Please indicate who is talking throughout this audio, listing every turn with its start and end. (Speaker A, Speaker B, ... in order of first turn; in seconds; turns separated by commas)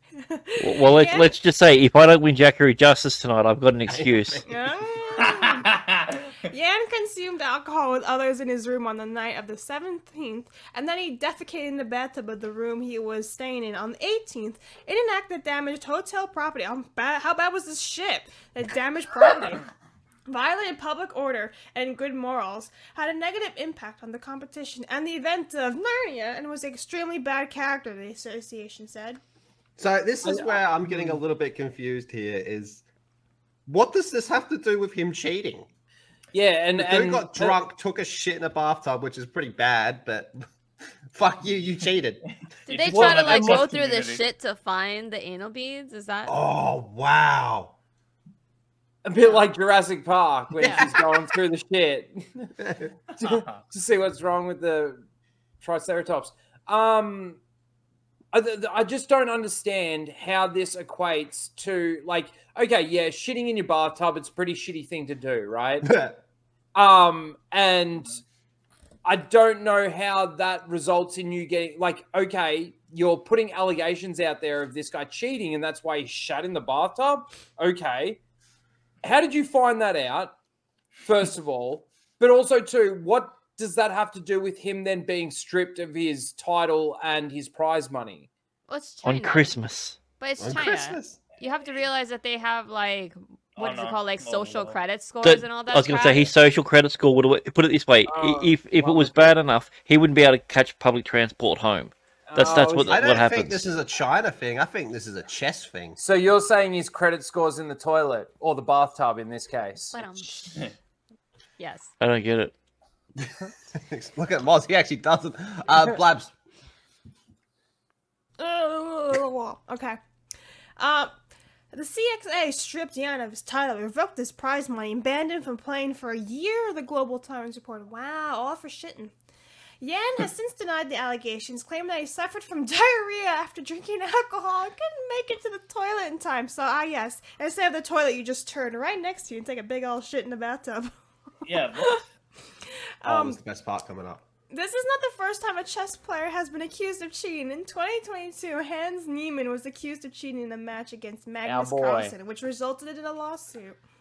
Speaker A: 0.2-1.3, Speaker B: 0.6-4.4, Speaker C: 3.9-4.5, Speaker A: 4.5-5.7, Speaker D: 5.2-6.2, Speaker A: 6.3-19.6, Speaker A: 20.3-29.2, Speaker C: 29.8-32.9, Speaker E: 30.2-31.2, Speaker C: 33.7-35.7, Speaker E: 36.3-37.6, Speaker C: 36.8-40.4, Speaker C: 41.1-42.2, Speaker D: 42.7-44.2, Speaker F: 42.7-46.3, Speaker E: 42.9-43.3, Speaker C: 46.3-47.7, Speaker E: 49.0-52.5, Speaker F: 50.6-50.9, Speaker E: 53.2-55.0, Speaker D: 53.2-53.6, Speaker E: 55.6-57.4, Speaker E: 58.3-65.9, Speaker C: 65.8-66.2, Speaker E: 66.8-68.2, Speaker E: 69.0-78.2, Speaker E: 79.0-80.3, Speaker E: 81.0-88.3, Speaker F: 88.7-89.5, Speaker B: 89.0-90.0, Speaker F: 90.2-96.3, Speaker C: 90.4-91.2, Speaker D: 93.6-94.8, Speaker B: 95.2-103.7, Speaker E: 98.0-99.3, Speaker E: 102.3-103.0, Speaker C: 102.9-106.0, Speaker E: 106.0-110.3, Speaker F: 109.9-110.5, Speaker F: 111.6-111.9, Speaker B: 112.0-112.5, Speaker C: 113.7-116.3, Speaker A: 118.4-120.0, Speaker A: 120.8-121.1, Speaker A: 121.7-129.1, Speaker A: 129.8-140.9, Speaker D: 141.5-142.0, Speaker A: 143.0-143.4, Speaker C: 143.0-144.2, Speaker A: 144.5-153.8, Speaker E: 151.4-152.2